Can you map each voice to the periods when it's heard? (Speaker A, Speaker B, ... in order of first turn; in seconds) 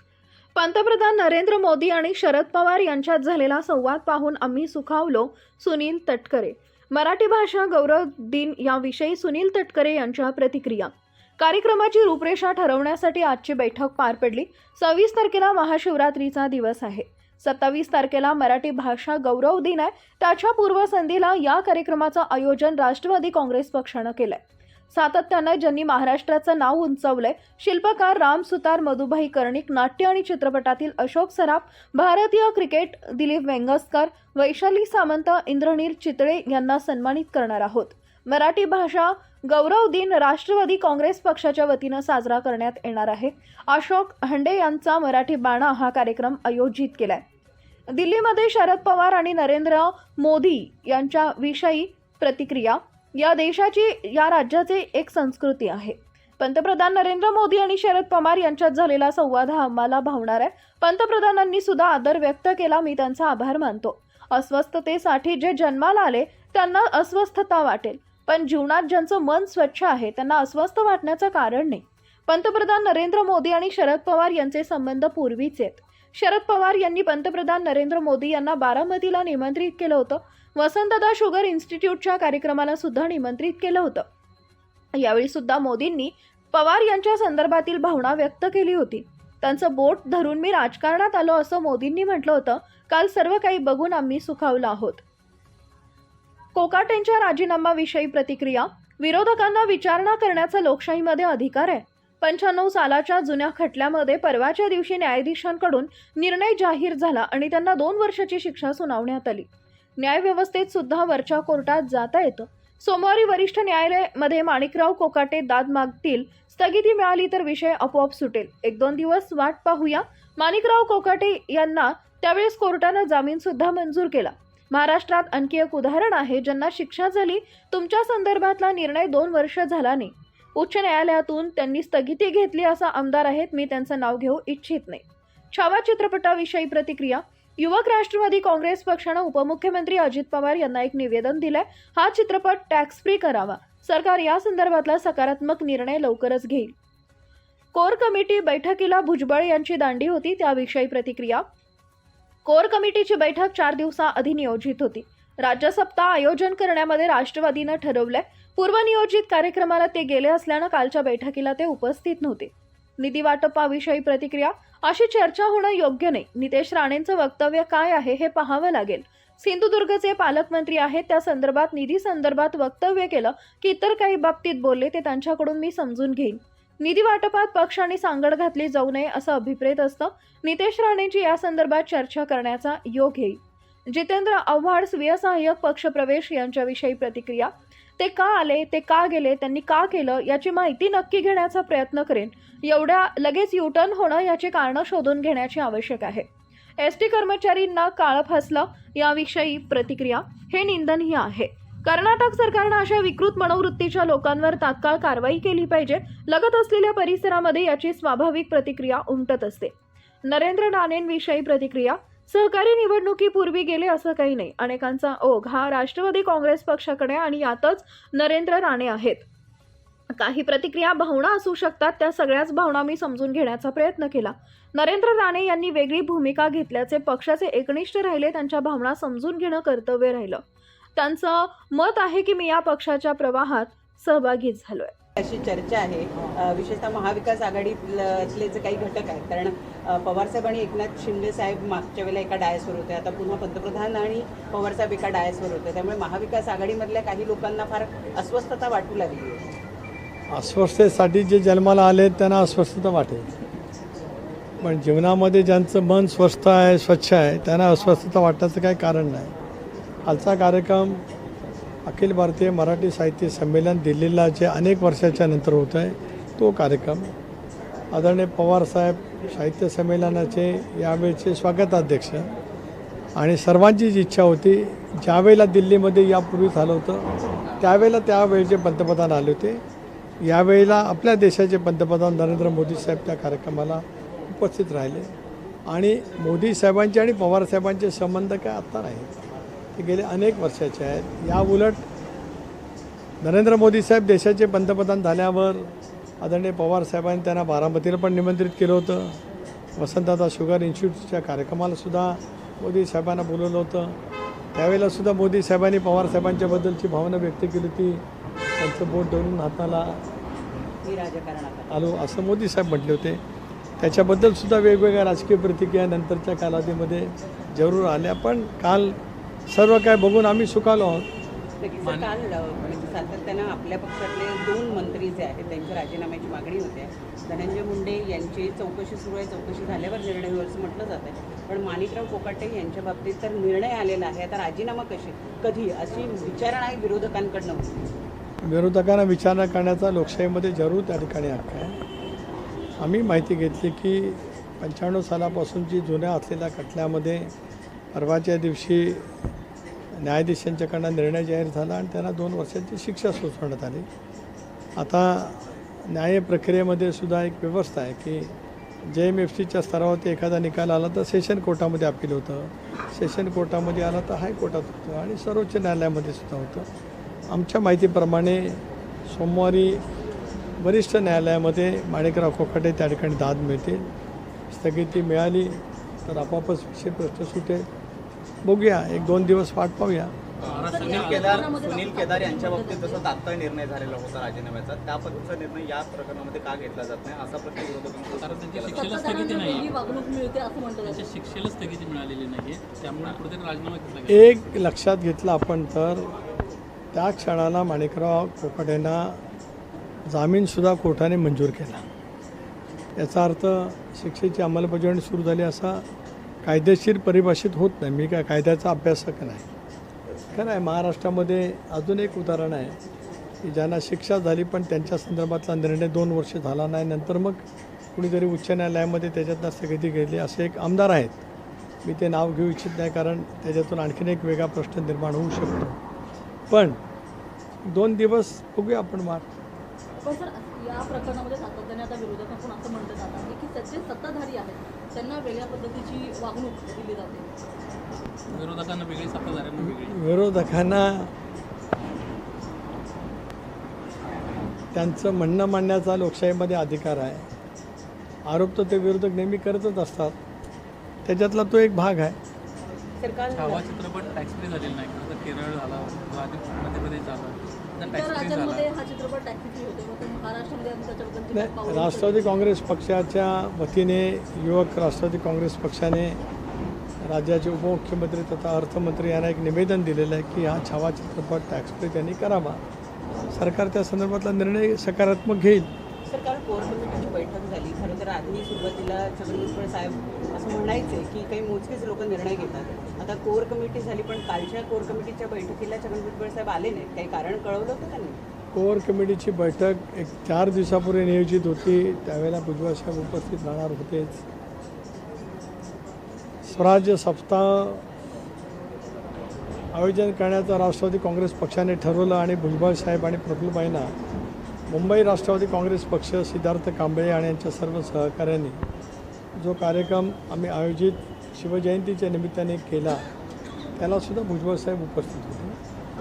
Speaker A: 0.6-47.2, 47.9-84.0, 84.9-95.0, 96.5-109.5, 110.0-146.7, 147.7-151.4, 152.4-196.2, 196.8-209.7, 210.2-219.2, 220.1-230.4, 231.0-234.9
Speaker B: 235.2-249.5, 310.8-311.8, 321.6-337.8, 453.0-453.7, 476.1-488.2
Speaker C: 250.3-253.2, 254.6-259.3, 260.0-261.0, 261.9-267.1, 267.9-272.3, 273.1-279.6, 280.2-285.1, 285.7-289.1, 289.8-291.9, 293.2-299.2, 299.8-304.0, 304.5-308.0, 308.6-310.1, 311.7-313.2, 313.8-319.0, 319.5-321.1, 338.4-341.8, 342.8-347.3, 347.9-349.1, 349.9-353.9, 354.8-358.3, 358.9-366.7, 367.3-369.8, 370.6-373.9, 374.5-377.7, 378.4-380.1, 394.1-396.1, 396.9-399.2, 400.1-401.8, 403.0-405.8, 406.4-409.4, 410.3-412.8, 413.4-417.4, 417.9-421.2, 421.8-425.8, 426.5-426.8, 427.6-429.3, 439.6-441.1, 444.7-447.3, 448.3-450.1, 451.1-452.1, 461.3-466.2, 467.0-472.6, 473.3-475.7, 488.5-494.2, 496.4-497.8, 499.7-503.9, 504.7-508.6, 509.4-513.0, 513.8-515.6
Speaker D: 321.8-322.1, 380.4-381.4, 388.2-389.7, 390.8-394.3, 438.3-440.0, 453.3-458.7
Speaker E: 380.4-389.0
Speaker F: 380.6-383.1, 388.6-391.1, 430.0-437.3, 457.8-462.3